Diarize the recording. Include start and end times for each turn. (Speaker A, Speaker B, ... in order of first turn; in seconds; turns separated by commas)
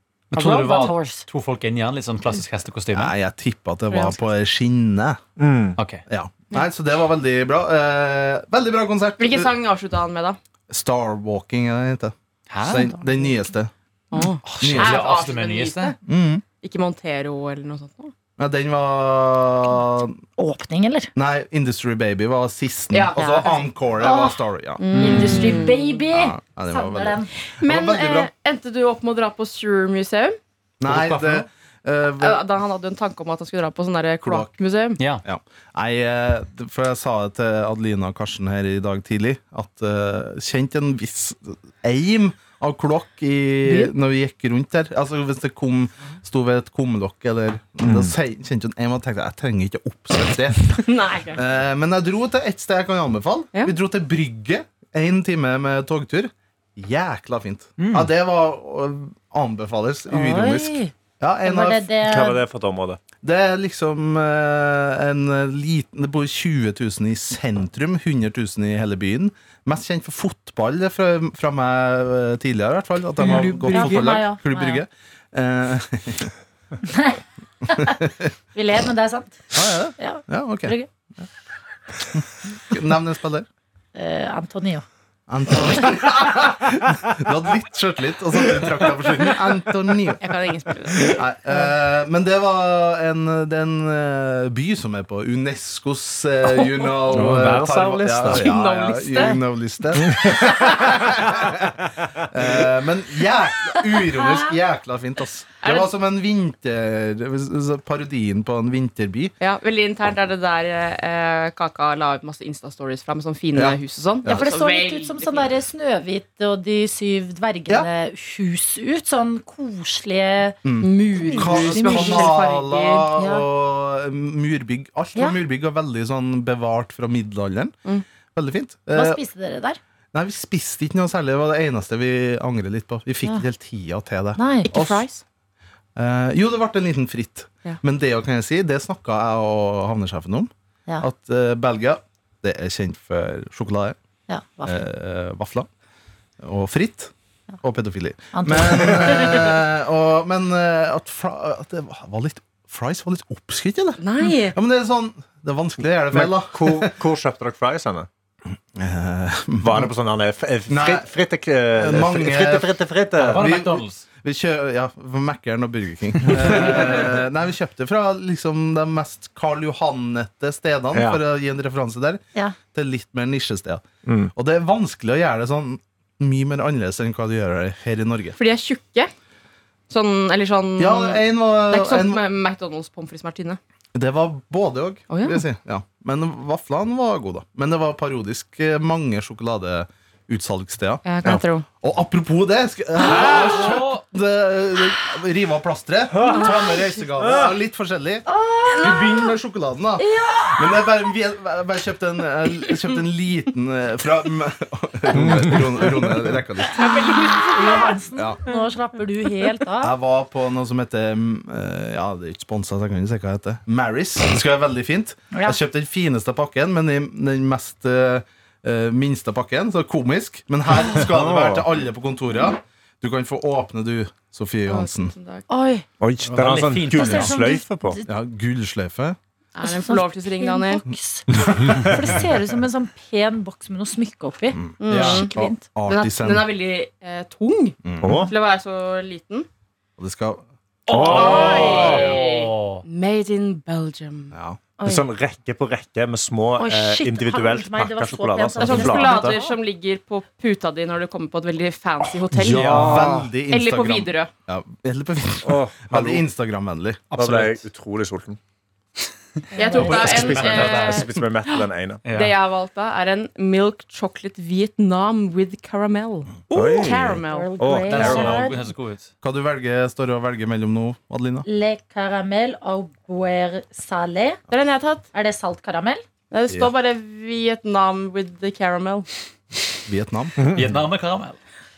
Speaker A: 0.3-3.1, Speaker B: 0.3-1.2, Speaker C: 2.9-5.2, Speaker D: 3.9-4.2, Speaker E: 5.4-5.8, Speaker A: 5.8-6.0, Speaker C: 6.1-9.6, Speaker D: 9.2-10.4, Speaker C: 10.7-13.7, Speaker A: 12.5-12.9, Speaker D: 14.1-16.0, Speaker A: 14.5-15.9, Speaker C: 14.6-15.1, Speaker C: 16.1-16.4, Speaker D: 16.6-18.1, Speaker C: 18.4-20.2, Speaker B: 20.4-21.1, Speaker C: 21.1-25.6, Speaker D: 22.9-23.6, Speaker B: 23.2-24.4, Speaker D: 24.8-26.0, Speaker B: 24.9-27.3, Speaker C: 26.1-28.3, Speaker D: 27.6-30.4, Speaker C: 30.8-32.4, Speaker A: 30.9-31.4, Speaker D: 32.2-35.0, Speaker C: 34.2-34.5, Speaker A: 35.0-35.2, Speaker C: 35.2-61.9, Speaker E: 47.8-48.1, Speaker D: 50.8-51.4, Speaker A: 57.8-58.1, Speaker B: 60.1-60.9, Speaker B: 61.4-62.4, Speaker E: 62.0-63.0, Speaker C: 63.2-76.3, Speaker D: 73.2-74.2, Speaker B: 73.2-74.8, Speaker B: 76.8-80.9, Speaker C: 77.7-78.3, Speaker C: 79.5-81.3, Speaker C: 82.1-83.5, Speaker B: 84.0-84.8, Speaker C: 85.3-90.3, Speaker D: 90.2-91.2, Speaker C: 91.0-109.3, Speaker A: 97.1-98.4, Speaker E: 97.2-98.3, Speaker D: 98.2-99.4, Speaker D: 105.6-105.9, Speaker D: 109.4-115.5, Speaker C: 113.5-114.5, Speaker B: 114.3-120.6, Speaker C: 120.6-127.8, Speaker D: 120.8-123.1, Speaker B: 121.3-122.3, Speaker B: 123.2-123.5, Speaker C: 128.3-129.2, Speaker B: 128.9-129.8, Speaker C: 130.1-135.1, Speaker B: 134.4-134.7, Speaker D: 134.7-135.2, Speaker C: 136.0-144.0, Speaker B: 144.3-144.8, Speaker C: 144.6-145.7, Speaker C: 146.4-156.9, Speaker B: 148.3-149.5, Speaker D: 154.0-154.6, Speaker E: 156.1-158.1, Speaker C: 158.8-159.9, Speaker E: 159.6-163.5, Speaker C: 160.7-161.1, Speaker C: 161.8-162.7, Speaker A: 163.2-164.0, Speaker C: 163.2-172.2, Speaker E: 170.9-171.2, Speaker C: 172.7-178.4, Speaker E: 174.1-174.3, Speaker D: 178.4-179.1, Speaker D: 179.9-183.6, Speaker C: 180.8-182.2, Speaker C: 183.9-198.3, Speaker D: 185.1-185.4, Speaker D: 191.1-191.7, Speaker A: 193.1-194.0, Speaker E: 196.1-197.5, Speaker B: 198.3-199.3, Speaker D: 198.7-199.2, Speaker C: 198.8-206.8, Speaker B: 200.0-200.8, Speaker E: 205.1-205.9, Speaker D: 206.8-208.0, Speaker B: 206.8-209.9, Speaker C: 208.2-208.4, Speaker C: 209.8-225.1, Speaker B: 215.3-215.6, Speaker E: 220.9-221.7, Speaker D: 224.7-225.5, Speaker B: 225.5-225.8, Speaker E: 226.0-228.0, Speaker A: 226.3-227.4, Speaker B: 226.9-228.1, Speaker C: 228.1-229.2, Speaker D: 229.6-230.8, Speaker B: 229.6-235.6, Speaker C: 234.5-236.5, Speaker D: 234.8-235.3, Speaker D: 235.9-239.5, Speaker C: 237.8-238.2, Speaker E: 238.0-238.3, Speaker C: 240.0-240.4, Speaker E: 240.9-242.1, Speaker D: 240.9-244.3, Speaker A: 240.9-242.8, Speaker C: 241.6-242.0, Speaker C: 244.3-244.6, Speaker B: 244.8-245.1, Speaker E: 244.8-249.2, Speaker B: 246.6-249.6, Speaker D: 248.6-254.3, Speaker C: 248.8-249.4, Speaker C: 252.3-257.1, Speaker E: 252.4-253.3, Speaker A: 252.5-253.2, Speaker E: 255.4-256.2, Speaker A: 257.1-257.6, Speaker E: 257.1-258.4, Speaker B: 259.6-260.0, Speaker D: 259.6-261.1, Speaker A: 259.7-261.1, Speaker E: 259.8-262.1, Speaker A: 262.0-262.4, Speaker D: 262.1-267.5, Speaker E: 266.5-268.5, Speaker B: 267.3-268.6, Speaker A: 267.9-269.1, Speaker C: 269.2-271.5, Speaker B: 271.4-274.4, Speaker D: 274.5-275.1, Speaker B: 275.1-276.0, Speaker D: 276.3-279.1, Speaker C: 279.9-280.4, Speaker E: 280.4-280.8, Speaker A: 280.5-281.4